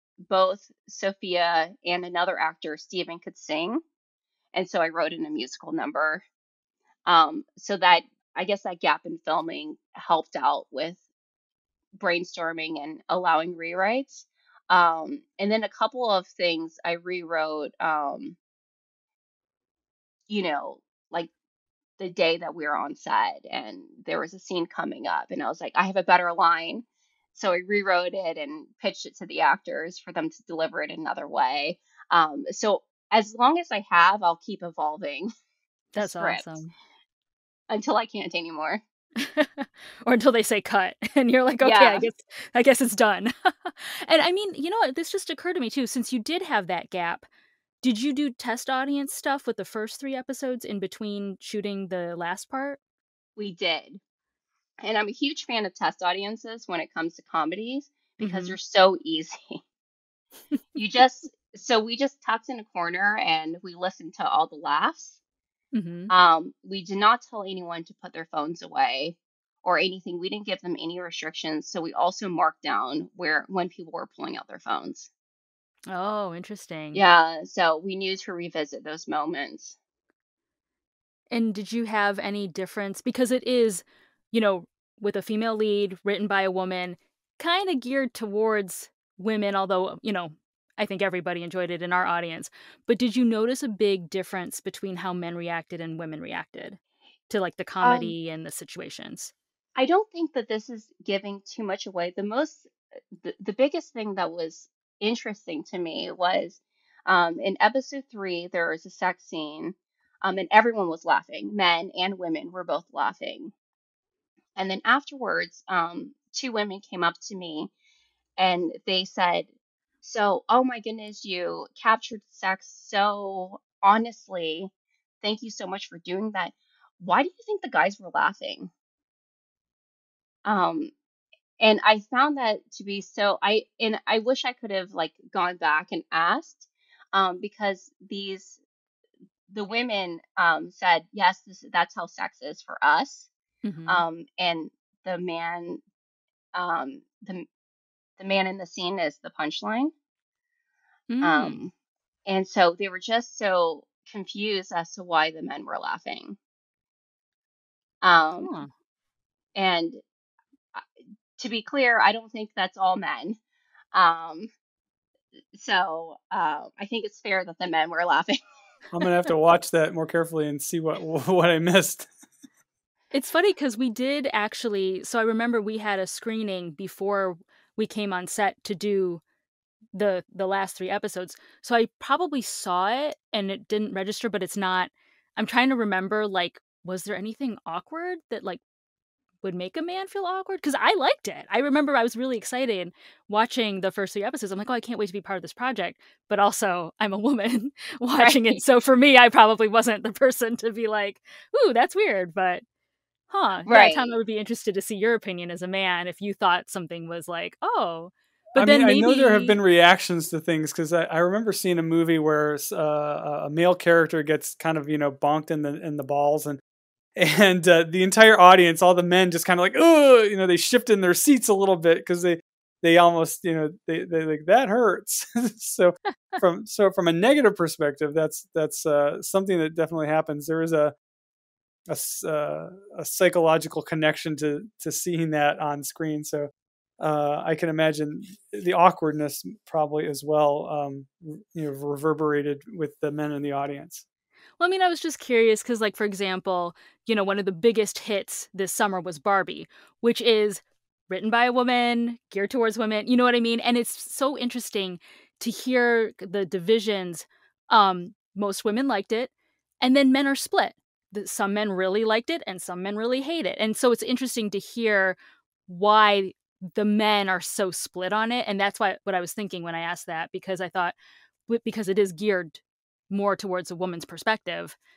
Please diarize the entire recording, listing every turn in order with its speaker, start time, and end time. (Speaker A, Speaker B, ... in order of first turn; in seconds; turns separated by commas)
Speaker A: 0.2-3.8, Speaker A: 4.5-6.2, Speaker A: 7.0-11.0, Speaker A: 11.9-18.4, Speaker A: 20.3-21.3, Speaker A: 22.0-35.3, Speaker B: 35.9-36.7, Speaker A: 36.0-36.6, Speaker A: 37.7-38.8, Speaker B: 39.2-47.3, Speaker A: 41.6-42.1, Speaker B: 47.8-52.8, Speaker A: 53.4-54.0, Speaker A: 54.8-59.6, Speaker B: 58.2-58.6, Speaker A: 60.7-65.2, Speaker B: 65.7-66.1, Speaker A: 66.1-75.1, Speaker B: 75.9-77.0, Speaker A: 76.9-79.8, Speaker B: 81.3-99.3, Speaker A: 97.8-98.1, Speaker A: 99.8-113.5, Speaker A: 114.6-117.7, Speaker A: 118.4-119.5, Speaker A: 120.0-124.7, Speaker A: 125.2-128.7, Speaker A: 130.4-130.9, Speaker A: 131.6-138.6, Speaker A: 139.5-143.3, Speaker B: 143.6-144.0, Speaker A: 143.9-145.8, Speaker A: 146.5-147.5, Speaker A: 148.2-149.9, Speaker B: 151.1-151.6, Speaker A: 151.2-151.7, Speaker A: 152.3-156.4, Speaker A: 158.0-158.6, Speaker B: 158.4-158.7, Speaker A: 159.6-160.0, Speaker A: 161.4-163.4, Speaker A: 163.9-164.5, Speaker A: 165.5-168.4, Speaker C: 168.9-172.1, Speaker B: 173.1-179.2, Speaker B: 179.9-188.6, Speaker B: 189.4-202.6, Speaker A: 198.2-198.6, Speaker B: 203.3-209.6, Speaker A: 203.7-204.2, Speaker C: 208.6-216.6, Speaker C: 217.2-230.9, Speaker C: 231.9-244.0, Speaker B: 244.6-270.9, Speaker B: 271.5-274.8